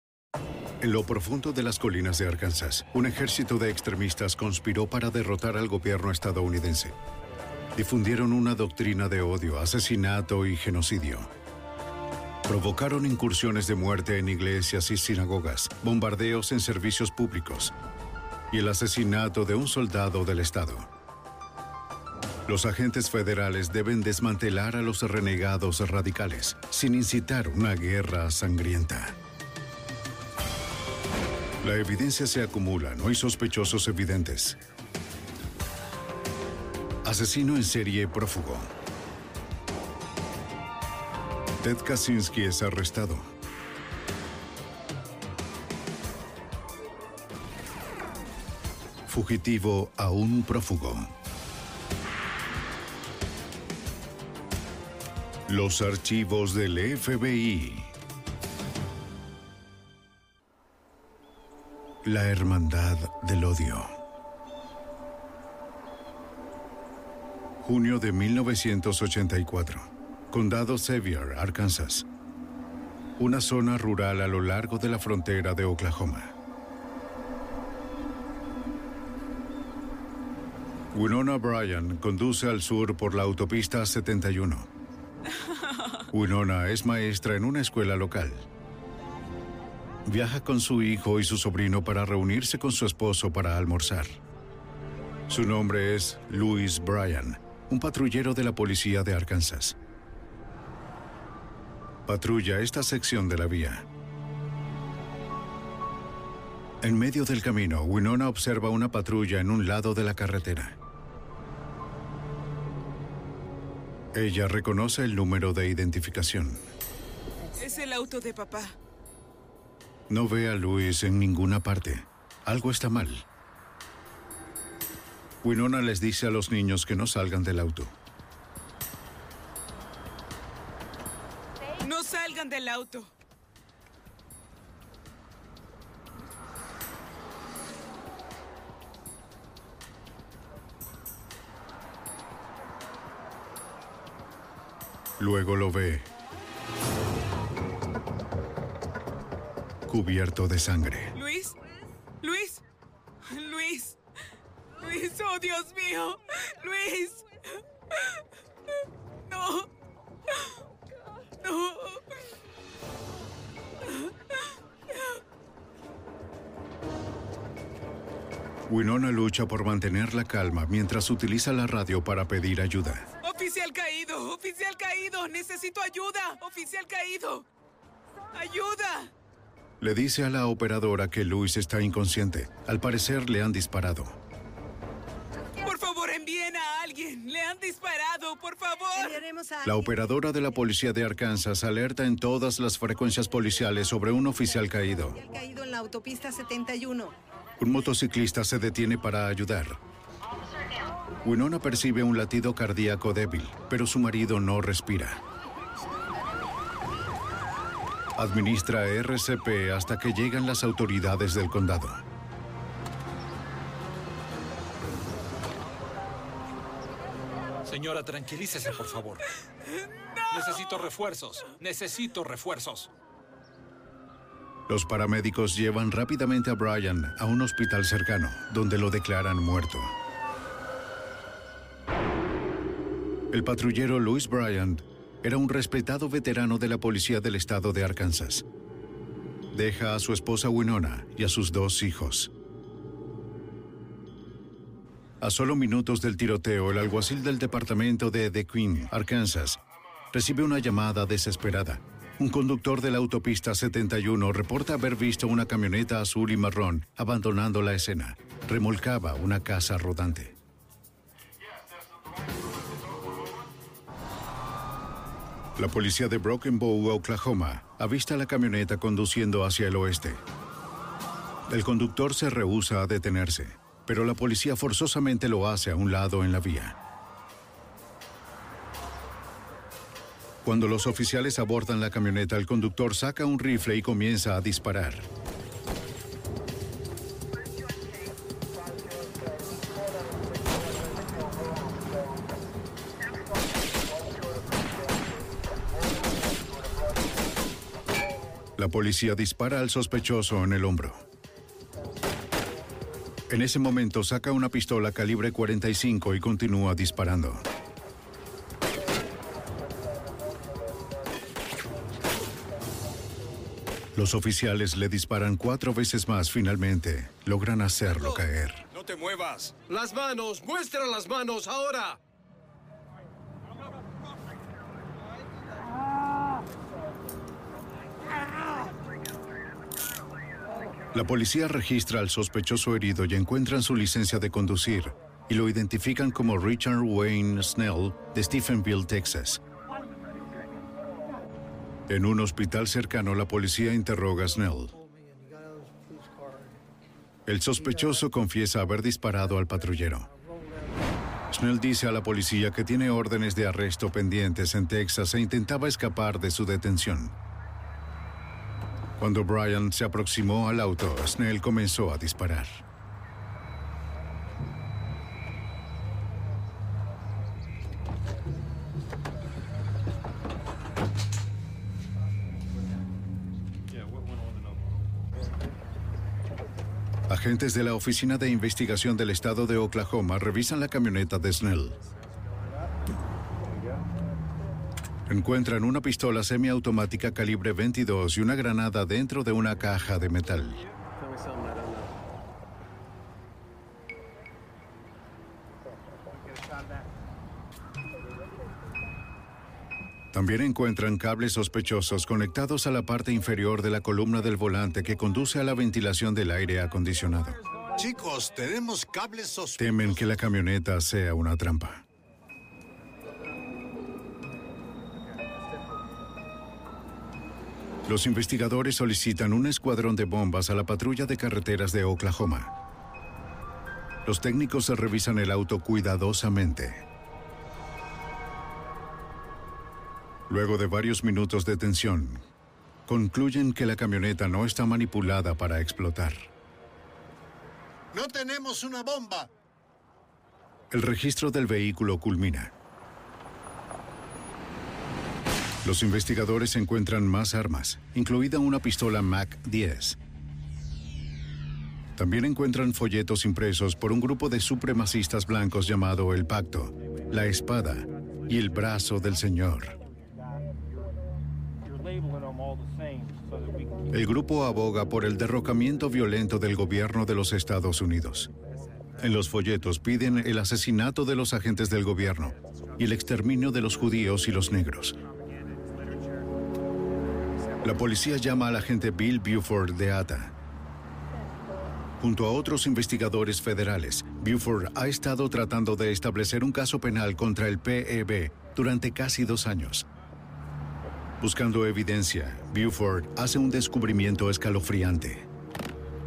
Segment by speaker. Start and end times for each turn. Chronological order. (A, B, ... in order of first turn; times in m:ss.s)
0:00.8-0:07.0 A
0:07.7-0:11.3 A
0:12.4-0:17.7 A
0:18.5-0:20.9 A
0:22.5-0:29.1 A
0:31.6-0:34.6 A
0:37.0-0:38.7 A
0:41.6-0:43.3 A
0:49.1-0:51.1 A
0:55.5-0:57.9 A
1:02.0-1:03.9 A
1:07.6-1:12.0 A
1:13.2-1:16.3 A
1:20.9-1:24.7 A
1:25.4-1:26.0 B
1:26.1-1:28.4 A
1:30.0-1:34.2 A
1:35.3-1:39.8 A
1:42.0-1:43.8 A
1:46.8-1:50.8 A
1:54.1-1:56.6 A
1:57.6-1:58.7 B
2:00.1-2:03.2 A
2:05.4-2:07.9 A
2:11.8-2:13.1 B
2:25.2-2:26.1 A
2:29.9-2:31.1 A
2:31.1-2:31.5 B
2:32.2-2:32.6 B
2:33.3-2:34.0 B
2:34.8-2:38.2 B
2:39.3-2:39.7 B
2:41.4-2:42.0 B
2:43.9-2:44.4 B
2:48.7-2:53.1 A
2:53.2-2:57.4 B
2:58.3-2:59.1 B
2:59.8-3:04.2 A
3:05.6-3:09.2 B
3:08.9-3:09.9 C
3:09.6-3:15.2 A
3:15.1-3:17.1 C
3:17.6-3:19.8 A
3:21.2-3:25.2 A
3:28.2-3:32.0 A
3:37.6-3:39.2 D
3:40.3-3:42.9 D
3:44.7-3:49.9 A
3:53.3-3:58.4 A
3:59.5-4:02.3 A
4:05.2-4:09.6 A
4:10.1-4:20.3 A
4:25.6-4:30.2 A
4:31.5-4:36.8 A
4:40.4-4:45.1 A
4:58.6-5:01.0 A
5:03.3-5:07.4 A
5:13.9-5:18.6 A
5:18.8-5:22.0 E
5:30.9-5:39.4 A
5:41.9-5:44.7 A
5:47.2-5:50.1 A
5:51.3-5:57.1 A
5:59.0-6:02.6 A
6:17.1-6:21.8 A
6:25.1-6:30.6 A
6:40.1-6:47.4 A
6:47.8-6:50.0 F
6:49.6-6:51.8 A
6:57.9-7:02.5 A
7:04.0-7:06.8 A
7:10.3-7:12.2 A
7:12.9-7:16.3 A
7:17.9-7:19.3 F
7:20.7-7:22.5 A
7:25.6-7:30.0 A
7:32.0-7:39.8 A
7:43.9-7:48.3 A
7:49.0-7:55.0 A
7:57.6-8:00.3 A
8:02.0-8:09.9 A
8:11.2-8:15.3 A